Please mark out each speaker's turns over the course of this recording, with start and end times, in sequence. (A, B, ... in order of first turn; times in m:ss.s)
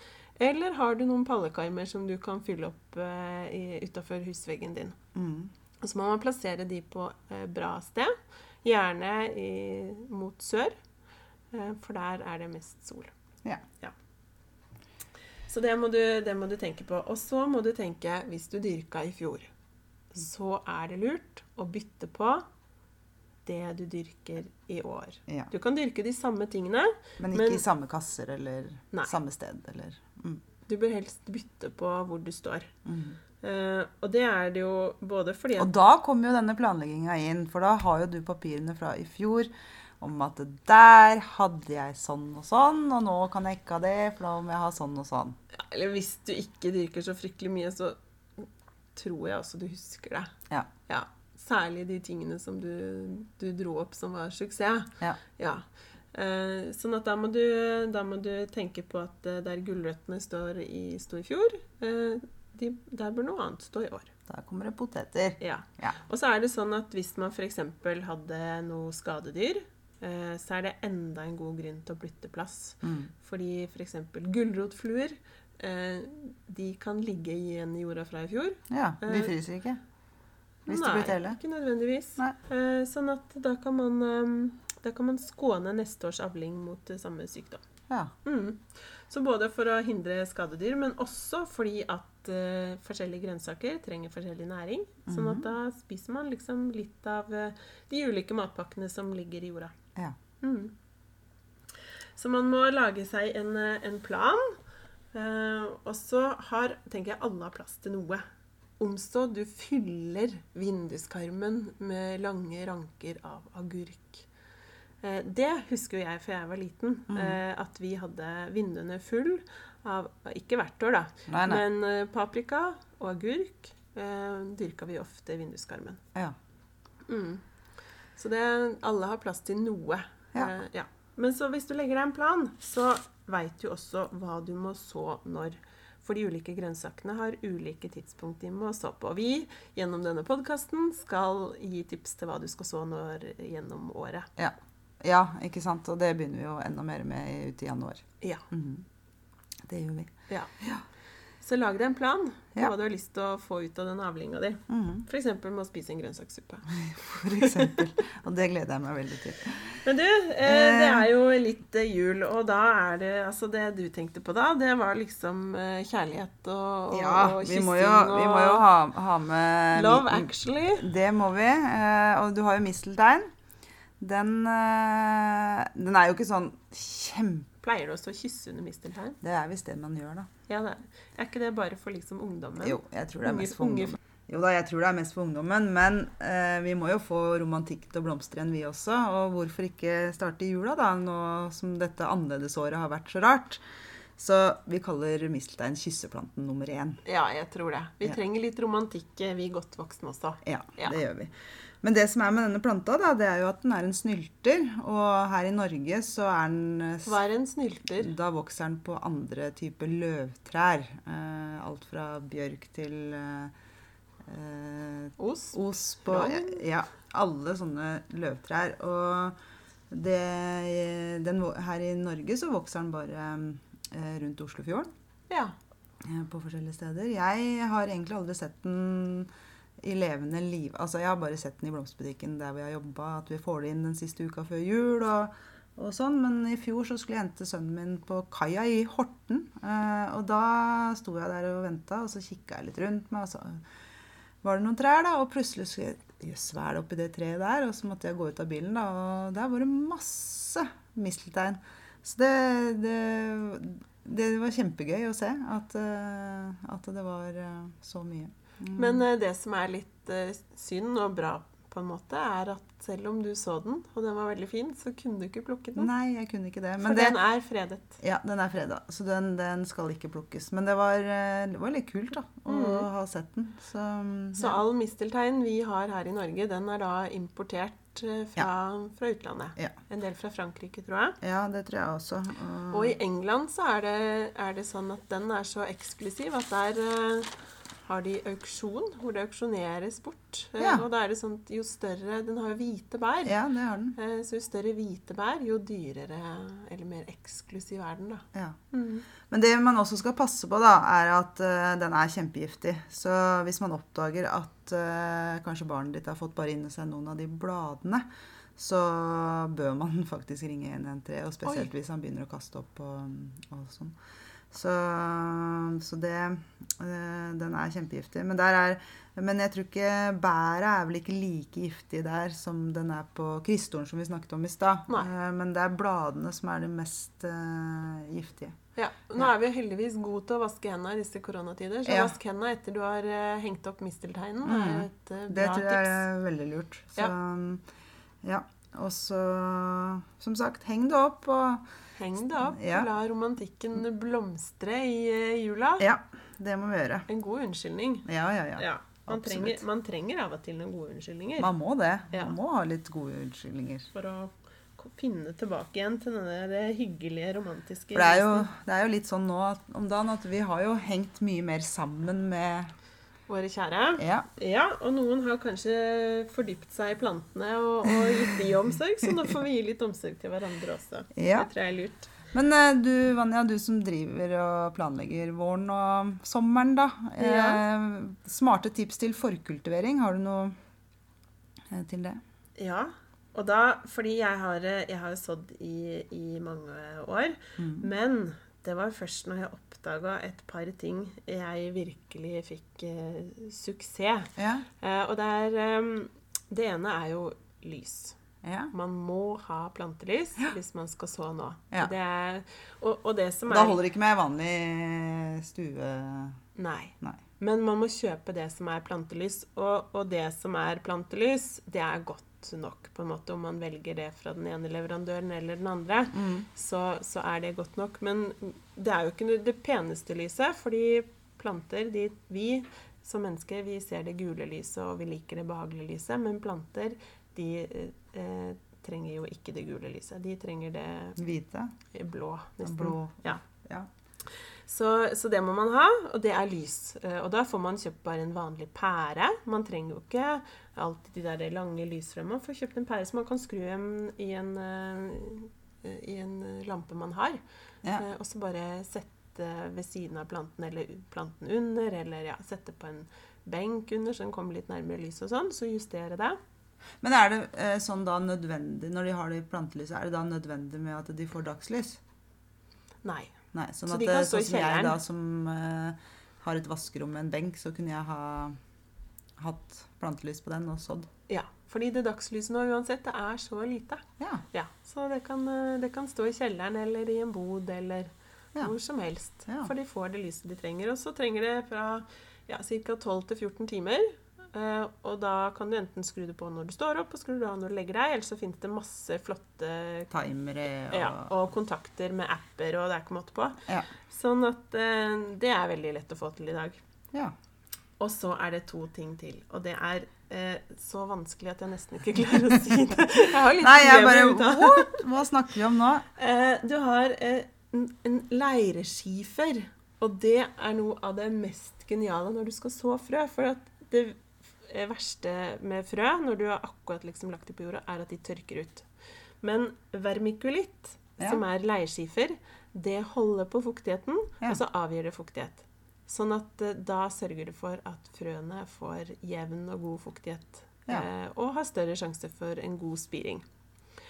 0:00.4-0:05.0 A
0:05.1-0:05.5 B
0:05.8-0:10.8 A
0:11.5-0:13.1 A
0:15.5-0:19.5 A
0:20.1-0:22.4 A
0:23.4-0:27.6 A
0:27.2-0:30.4 B
0:30.6-0:32.7 A
0:32.8-0:33.2 B
0:33.4-0:35.7 A
0:35.6-0:45.4 B
0:45.5-0:50.3 A
0:50.9-1:04.1 A
1:04.3-1:06.0 B
1:05.4-1:19.3 A
1:12.8-1:13.1 B
1:18.7-1:19.8 B
1:20.6-1:27.6 A
1:20.7-1:21.4 B
1:28.2-1:39.7 A
1:35.1-1:35.4 B
1:40.4-1:40.7 A
1:42.2-1:44.6 A
1:45.1-1:48.2 A
1:48.8-1:54.3 A
1:55.0-2:06.0 A
1:57.1-1:57.4 B
2:01.3-2:01.6 B
2:07.1-2:07.4 A
2:08.2-2:24.3 A
2:24.4-2:28.8 B
2:28.2-2:28.4 A
2:29.6-2:30.8 B
2:31.4-2:37.8 A
2:34.7-2:35.0 B
2:36.7-2:39.8 B
2:39.8-2:48.6 A
2:40.4-2:41.1 B
2:46.9-2:53.3 B
2:49.7-2:50.9 A
2:54.0-2:57.5 B
2:57.6-2:59.2 A
2:59.2-3:00.3 B
3:00.5-3:04.0 A
3:02.6-3:13.6 B
3:14.2-3:17.0 B
3:17.0-3:21.0 A
3:20.4-3:27.2 B
3:27.0-3:28.1 A
3:28.0-3:33.5 B
3:34.2-3:39.4 B
3:35.2-3:36.6 A
3:39.9-3:44.9 B
3:45.3-3:45.5 A
3:46.0-3:49.3 B
3:49.8-4:03.6 B
4:04.4-4:19.0 B
4:18.7-4:25.9 A
4:25.8-4:27.2 B
4:26.8-4:28.0 A
4:28.0-4:34.6 B
4:32.5-4:32.9 A
4:34.4-4:41.2 A
4:41.2-4:43.0 B
4:42.7-4:47.3 A
4:47.8-4:53.4 A
4:50.6-4:50.8 B
4:53.2-4:54.0 B
4:54.0-4:59.0 A
4:58.3-4:58.6 B
4:59.2-5:14.0 B
5:11.4-5:11.7 A
5:14.5-5:28.6 B
5:28.8-5:36.0 A
5:31.8-5:32.1 B
5:34.4-5:37.6 B
5:38.2-5:41.6 B
5:42.0-5:45.9 A
5:42.3-5:42.9 B
5:45.8-5:47.1 B
5:47.1-5:51.5 A
5:48.0-5:49.6 B
5:51.4-5:53.9 B
5:53.9-5:58.5 A
5:57.9-6:02.7 B
6:03.3-6:12.1 A
6:04.0-6:04.3 B
6:11.2-6:11.5 B
6:12.3-6:20.5 B
6:17.2-6:17.6 A
6:21.7-6:22.2 B
6:22.6-6:38.2 A
6:27.6-6:27.8 B
6:34.4-6:34.6 B
6:38.4-6:38.7 B
6:38.7-6:43.8 A
6:43.5-6:46.4 B
6:46.6-7:11.2 A
6:56.1-6:56.4 B
7:11.2-7:11.7 B
7:11.9-7:13.4 A
7:12.6-7:13.9 B
7:14.7-7:27.4 A
7:27.9-7:36.4 A
7:37.0-7:42.0 B
7:43.0-7:43.3 A
7:43.5-7:48.6 B
7:43.9-7:45.0 A
7:49.4-7:51.1 B
7:51.3-8:10.1 A
7:54.2-7:54.4 B
8:10.1-8:11.3 B
8:10.9-8:16.8 A
8:18.0-8:25.0 A
8:23.6-8:26.0 B
8:26.2-8:38.9 A
8:39.4-8:53.4 A